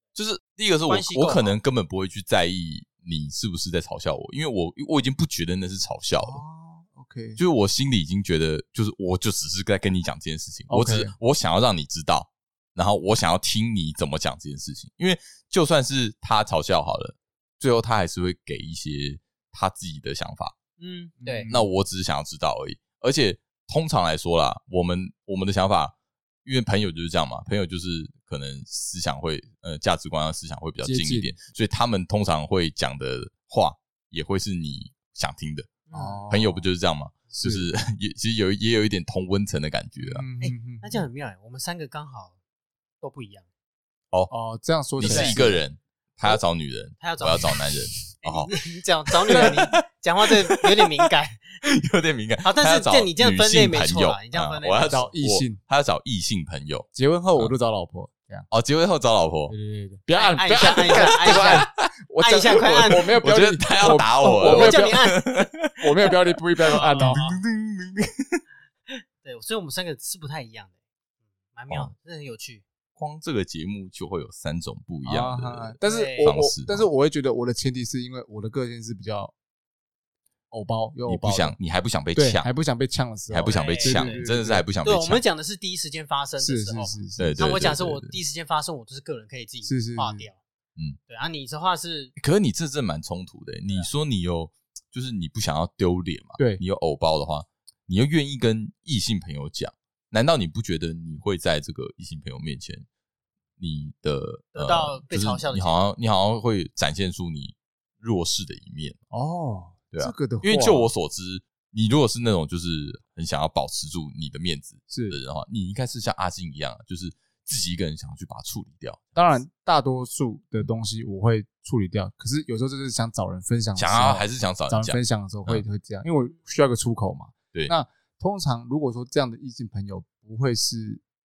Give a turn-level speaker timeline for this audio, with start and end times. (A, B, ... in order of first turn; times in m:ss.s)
0:00.2-0:06.4 A
0:00.9-0:01.6 B
0:06.2-0:07.4 C
0:07.4-0:20.6 A
0:10.7-0:11.2 C
0:20.8-0:21.5 B
0:21.2-0:21.7 C
0:21.5-0:25.9 A
0:26.4-0:35.8 A
0:30.8-0:31.3 C
0:35.9-0:36.3 B
0:35.9-0:36.6 C
0:36.3-0:40.3 A
0:37.4-0:37.6 C
0:40.0-0:41.0 C
0:40.4-0:42.4 B
0:43.0-0:43.5 B
0:44.3-0:45.6 C
0:45.0-0:48.6 A
0:45.0-0:45.4 B
0:47.0-0:47.6 B
0:48.2-0:51.6 B
0:49.1-0:49.8 A
0:49.3-0:49.6 C
0:50.5-0:51.0 A
0:51.6-0:57.5 A
0:52.4-0:55.1 B
0:54.9-0:55.6 C
0:56.9-0:58.5 C
0:58.5-0:59.6 A
0:59.5-1:05.1 C
1:00.1-1:01.7 B
1:00.7-1:01.9 A
1:02.2-1:03.1 B
1:02.5-1:08.4 A
1:04.2-1:05.4 B
1:05.8-1:07.2 C
1:06.6-1:07.4 B
1:08.9-1:10.7 B
1:11.5-1:12.6 B
1:13.0-1:16.9 A
1:15.0-1:19.3 C
1:15.8-1:16.3 B
1:20.5-1:21.6 C
1:21.1-1:22.5 A
1:22.2-1:24.6 C
1:23.3-1:25.2 A
1:23.5-1:24.3 B
1:24.8-1:30.4 B
1:26.4-1:27.4 C
1:27.2-1:28.2 A
1:29.6-1:30.3 C
1:31.1-1:32.1 B
1:32.2-1:42.9 A
1:43.6-1:49.0 A
1:44.6-1:45.8 B
1:49.1-1:50.9 C
1:49.9-1:59.2 A
1:54.9-1:55.2 C
1:59.2-2:11.0 C
2:03.8-2:05.6 A